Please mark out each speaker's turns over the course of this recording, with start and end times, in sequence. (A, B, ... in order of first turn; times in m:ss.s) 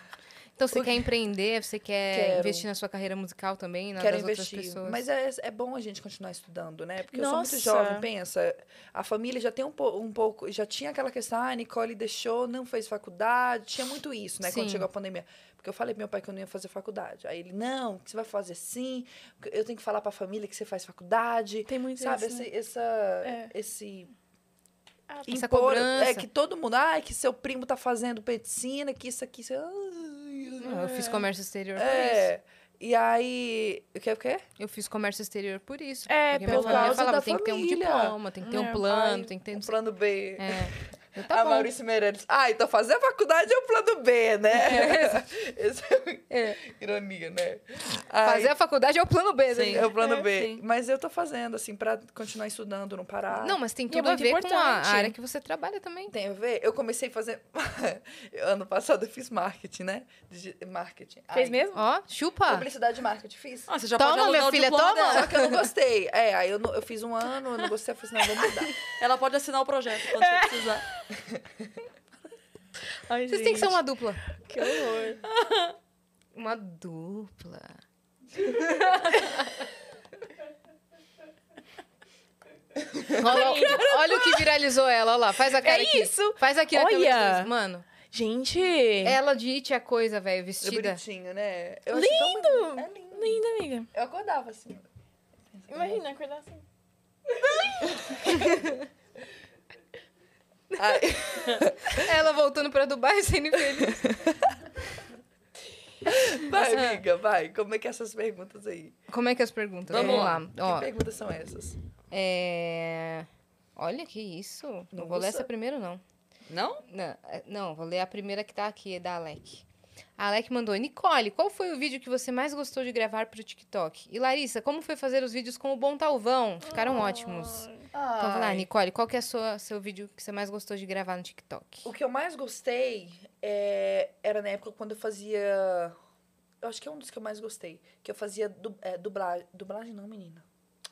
0:00.6-0:05.0 A
0:02.1-0:02.7 B
0:04.0-0:24.1 B
0:07.1-0:08.1 C
0:14.4-0:14.9 A
0:21.7-0:22.5 C
0:23.2-0:23.5 C
0:25.1-0:25.4 C
0:25.3-0:31.2 B
0:25.3-0:26.3 A
0:30.6-0:32.3 A
0:31.8-0:34.4 B
0:34.6-0:39.7 A
0:36.1-0:37.1 C
0:36.5-0:38.2 B
0:38.4-0:38.9 C
0:38.8-0:40.8 B
0:40.4-0:41.7 A
0:41.3-0:48.5 B
0:44.5-0:45.2 A
0:46.3-0:46.6 A
0:48.2-0:49.9 A
0:49.5-0:50.6 D
0:49.7-0:53.6 B
0:53.3-0:56.1 A
0:53.9-0:55.2 C
0:56.1-1:01.6 B
1:01.3-1:01.8 C
1:01.7-1:02.7 A
1:02.5-1:03.7 B
1:03.7-1:05.3 D
1:04.0-1:05.6 A
1:05.1-1:08.8 B
1:09.0-1:10.8 D
1:10.1-1:10.8 C
1:13.1-1:13.8 C
1:13.3-1:14.2 A
1:14.4-1:15.2 C
1:15.2-1:15.7 D
1:16.3-1:17.8 A
1:18.4-1:19.5 A
1:23.1-1:24.5 C
1:23.1-1:27.9 A
1:25.6-1:27.5 C
1:28.1-1:29.2 C
1:29.0-1:31.0 A
1:30.6-1:34.9 B
1:31.9-1:33.9 C
1:35.5-1:36.0 B
1:35.7-1:36.6 C
1:37.6-1:38.5 C
1:38.3-1:38.6 A
1:40.8-1:42.0 B
1:41.6-1:44.2 A
1:43.8-1:44.5 B
1:46.0-1:49.0 B
1:46.5-1:47.0 A
1:49.1-1:50.9 A
1:49.9-1:50.4 D
1:49.9-1:51.8 B
1:52.1-1:56.0 A
1:54.9-1:55.5 B
1:56.5-1:56.8 D
1:56.9-1:59.6 A
2:00.2-2:11.9 A
2:06.7-2:07.8 C
2:07.9-2:08.7 B
2:11.8-2:16.0 B
2:16.6-2:20.4 B